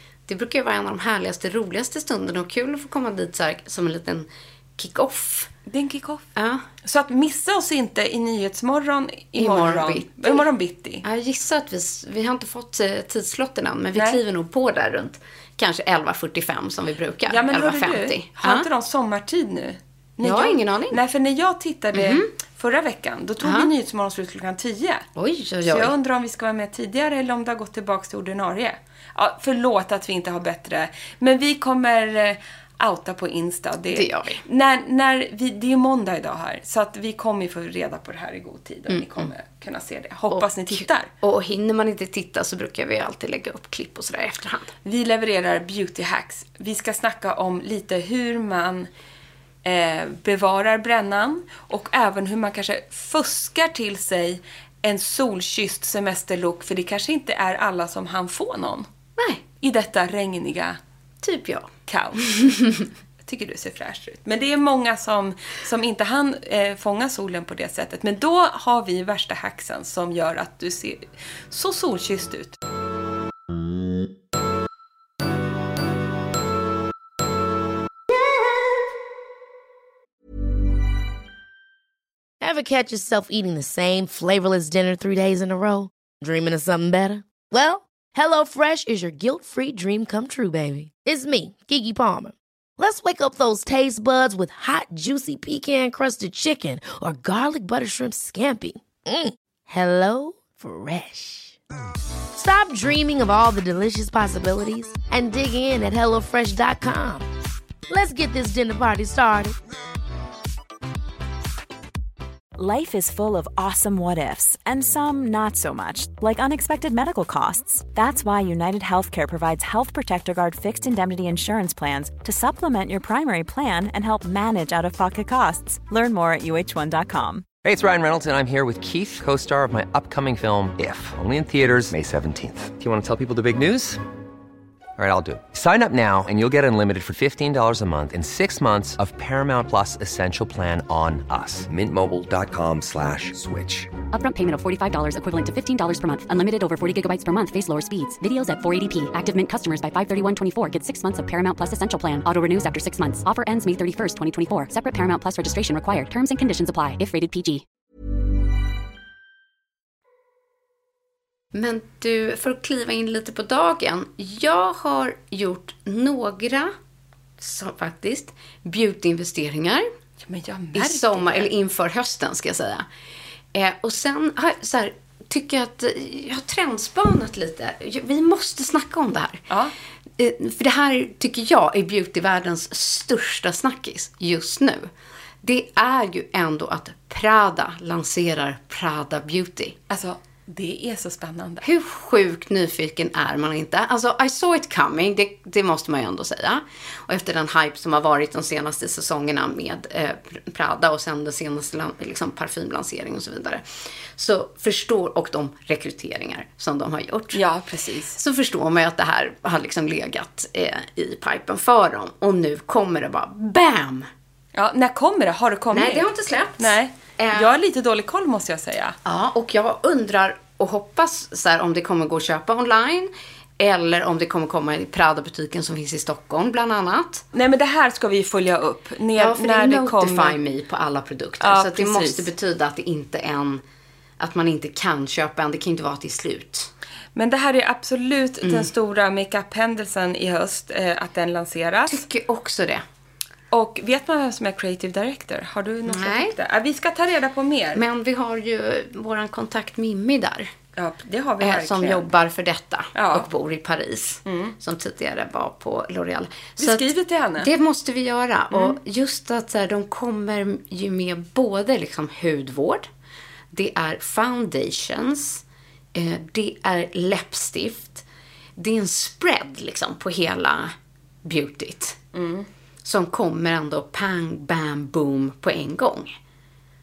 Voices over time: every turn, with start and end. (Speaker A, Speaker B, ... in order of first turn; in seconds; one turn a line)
Speaker A: 0.3-5.5
Speaker B: 5.7-6.3
Speaker A: 6.3-6.6
Speaker B: 6.8-11.0
Speaker A: 9.4-10.4
Speaker A: 11.0-18.6
Speaker B: 13.9-14.2
Speaker B: 17.3-25.1
Speaker A: 20.2-21.0
Speaker A: 21.9-22.3
Speaker A: 23.4-23.7
Speaker A: 25.2-25.9
Speaker B: 25.6-41.1
Speaker A: 33.9-34.4
Speaker A: 38.9-39.3
Speaker A: 40.3-44.7
Speaker B: 44.8-48.9
Speaker B: 49.6-58.9
Speaker B: 59.6-60.8
Speaker A: 61.2-61.7
Speaker B: 61.9-62.4
Speaker A: 62.2-62.8
Speaker B: 63.2-72.6
Speaker C: 82.4-101.6
Speaker C: 102.3-107.3
Speaker C: 107.9-109.5
Speaker D: 112.5-127.5
Speaker E: 127.6-134.0
Speaker E: 135.0-143.9
Speaker F: 144.1-157.6
Speaker A: 161.5-166.7
Speaker A: 167.4-169.8
Speaker B: 170.2-171.5
Speaker A: 170.7-172.8
Speaker A: 173.5-179.4
Speaker A: 180.2-184.9
Speaker A: 185.4-189.8
Speaker B: 189.9-191.6
Speaker A: 191.6-203.6
Speaker A: 204.2-207.4
Speaker B: 207.3-208.2
Speaker A: 208.1-214.1
Speaker B: 214.5-216.1
Speaker A: 215.7-217.5
Speaker B: 216.6-218.9
Speaker A: 219.0-227.2
Speaker B: 227.3-230.4
Speaker A: 229.2-233.6
Speaker B: 231.4-232.3
Speaker A: 234.2-236.7
Speaker B: 237.1-242.0
Speaker A: 238.4-238.7
Speaker A: 241.9-242.8
Speaker B: 243.5-247.8
Speaker A: 245.9-246.3
Speaker A: 247.7-250.5
Speaker B: 250.8-252.1
Speaker A: 251.4-262.9
Speaker B: 252.9-253.3
Speaker B: 254.2-254.5
Speaker B: 256.6-257.5
Speaker B: 258.5-258.8
Speaker A: 263.5-265.4
Speaker A: 265.9-268.0
Speaker A: 268.6-270.7
Speaker A: 271.2-272.0
Speaker B: 272.1-272.5
Speaker A: 272.8-276.1